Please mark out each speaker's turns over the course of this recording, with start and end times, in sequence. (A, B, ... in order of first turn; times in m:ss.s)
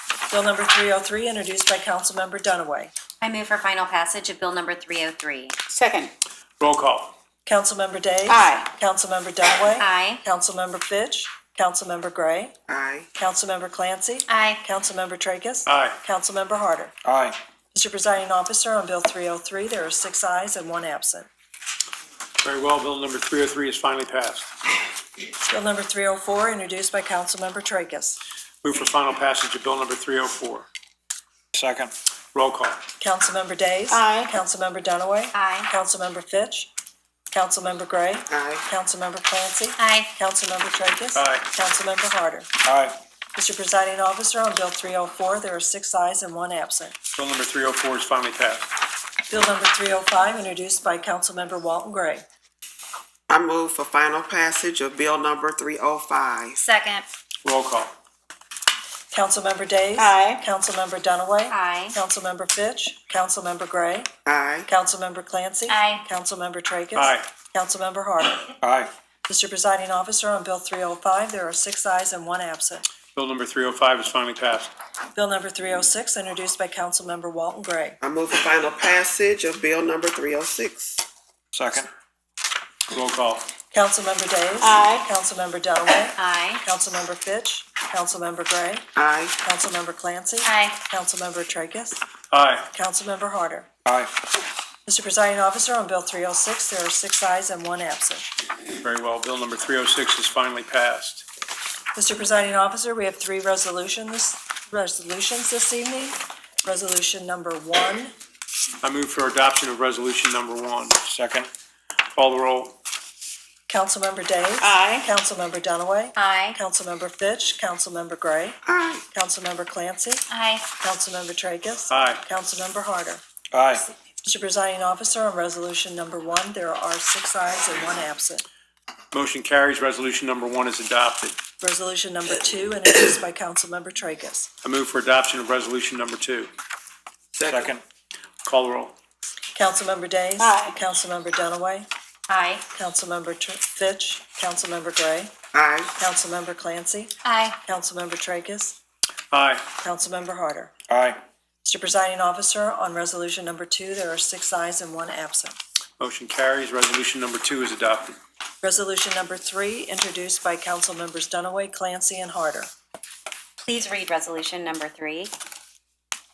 0:00.3-0:02.9 A
0:03.2-0:05.6 B
0:05.7-0:06.1 C
0:06.6-0:07.1 D
0:07.4-0:12.5 A
0:08.3-0:08.7 C
0:09.8-0:10.2 B
0:12.7-0:13.1 E
0:13.2-0:16.9 A
0:14.3-0:14.6 B
0:15.7-0:16.0 D
0:17.0-0:17.4 F
0:17.7-0:21.3 A
0:22.4-0:24.5 D
0:25.4-0:28.2 A
0:28.6-0:30.7 D
0:31.5-0:31.9 F
0:32.3-0:32.8 D
0:33.0-0:36.7 A
0:33.9-0:34.3 C
0:35.3-0:35.7 B
0:37.3-0:42.5 A
0:38.3-0:38.6 E
0:39.8-0:40.1 B
0:41.1-0:41.5 D
0:42.6-0:43.0 F
0:43.3-0:47.0 A
0:47.1-0:48.7 D
0:49.3-0:52.2 A
0:53.3-0:56.6 E
0:56.6-0:57.0 B
0:57.4-0:57.9 D
0:59.1-1:04.1 A
1:00.0-1:00.4 C
1:01.5-1:02.0 B
1:04.2-1:04.7 E
1:04.7-1:08.5 A
1:05.7-1:06.0 B
1:06.9-1:07.3 D
1:08.6-1:08.9 F
1:09.3-1:12.8 A
1:13.1-1:14.7 D
1:15.1-1:18.0 A
1:18.0-1:21.0 E
1:21.5-1:21.9 F
1:22.9-1:23.4 D
1:23.7-1:28.8 A
1:24.6-1:25.1 C
1:26.2-1:26.6 B
1:29.0-1:29.4 E
1:29.4-1:32.0 A
1:30.4-1:30.8 B
1:32.3-1:32.7 D
1:32.7-1:33.7 A
1:33.8-1:34.1 F
1:34.8-1:38.2 A
1:38.8-1:41.2 D
1:41.9-1:48.1 A
1:48.8-1:51.0 D
1:51.1-1:51.5 F
1:52.1-1:52.8 D
1:53.7-1:58.6 A
1:54.6-1:55.1 C
1:56.2-1:56.6 B
1:58.6-1:59.0 E
1:59.1-2:00.2 A
2:00.3-2:00.6 B
2:00.8-2:03.2 A
2:01.9-2:02.2 D
2:03.5-2:03.8 F
2:04.2-2:08.4 A
2:09.1-2:11.4 D
2:11.6-2:14.5 A
2:14.6-2:16.5 D
2:17.3-2:17.7 E
2:17.4-2:17.8 F
2:18.4-2:18.9 D
2:19.5-2:21.9 A
2:20.4-2:20.8 C
2:22.3-2:22.6 B
2:22.7-2:25.3 A
2:25.5-2:25.9 E
2:26.0-2:28.8 A
2:27.2-2:27.6 B
2:29.3-2:29.7 D
2:29.8-2:30.7 A
2:30.9-2:31.2 F
2:31.6-2:35.6 A
2:36.0-2:38.2 D
2:38.6-2:42.7 A
2:43.6-2:45.3 B